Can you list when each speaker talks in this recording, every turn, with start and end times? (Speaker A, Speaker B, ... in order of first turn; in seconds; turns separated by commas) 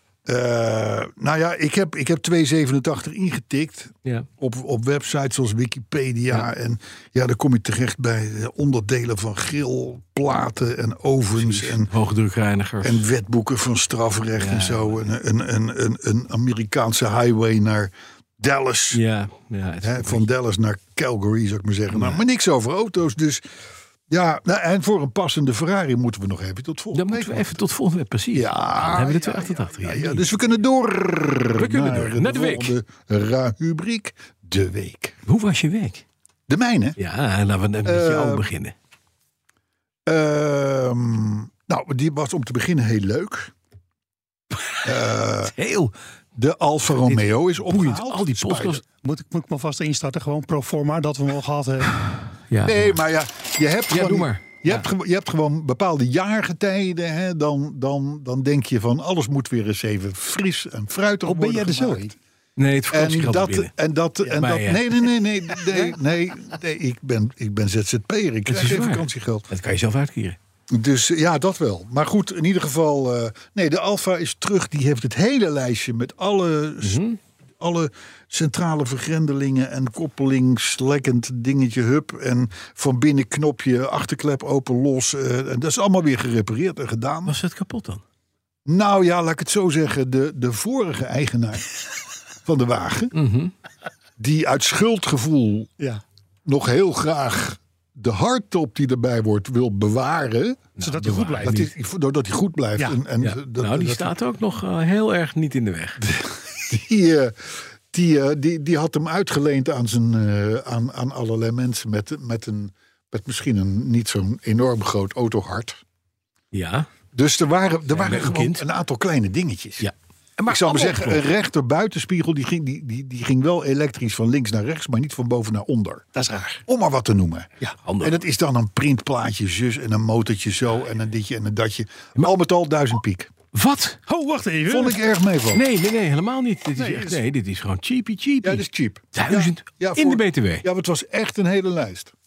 Speaker A: 0.3-11.9, Speaker B: 11.4-13.1, Speaker A: 12.8-19.0, Speaker B: 14.4-15.1, Speaker B: 18.9-20.3, Speaker A: 19.8-23.4, Speaker B: 21.9-22.2, Speaker A: 24.1-27.6, Speaker B: 26.9-30.3, Speaker A: 28.3-35.2, Speaker B: 31.6-32.8, Speaker B: 35.3-36.0, Speaker A: 36.5-37.0, Speaker B: 37.0-38.7, Speaker A: 37.9-38.5, Speaker A: 40.1-43.5, Speaker B: 44.7-45.9, Speaker A: 44.8-45.5, Speaker A: 46.4-48.8, Speaker B: 47.0-48.8, Speaker C: 49.0-51.9, Speaker B: 52.5-53.0, Speaker A: 52.6-62.2, Speaker B: 53.9-54.9, Speaker C: 61.3-62.1, Speaker B: 62.6-63.7, Speaker A: 62.9-69.5, Speaker B: 64.3-65.6, Speaker B: 68.5-70.4, Speaker A: 70.7-77.0, Speaker B: 76.8-77.2, Speaker A: 77.6-87.4, Speaker B: 87.3-88.0, Speaker A: 88.7-91.8, Speaker A: 92.5-93.1, Speaker B: 93.1-93.5, Speaker A: 94.2-95.7, Speaker A: 96.5-100.7, Speaker B: 100.8-101.7, Speaker C: 100.8-101.6, Speaker A: 101.4-104.2, Speaker B: 103.2-106.1, Speaker A: 106.0-115.8, Speaker B: 116.5-116.9, Speaker A: 117.1-119.9, Speaker B: 117.9-118.7, Speaker B: 119.8-121.2, Speaker A: 120.5-126.1, Speaker C: 126.2-126.6, Speaker A: 126.7-133.3, Speaker B: 127.8-128.2, Speaker B: 133.5-134.0, Speaker C: 134.1-135.0, Speaker A: 134.7-135.7, Speaker B: 135.5-140.7, Speaker C: 136.8-137.2, Speaker A: 138.4-142.1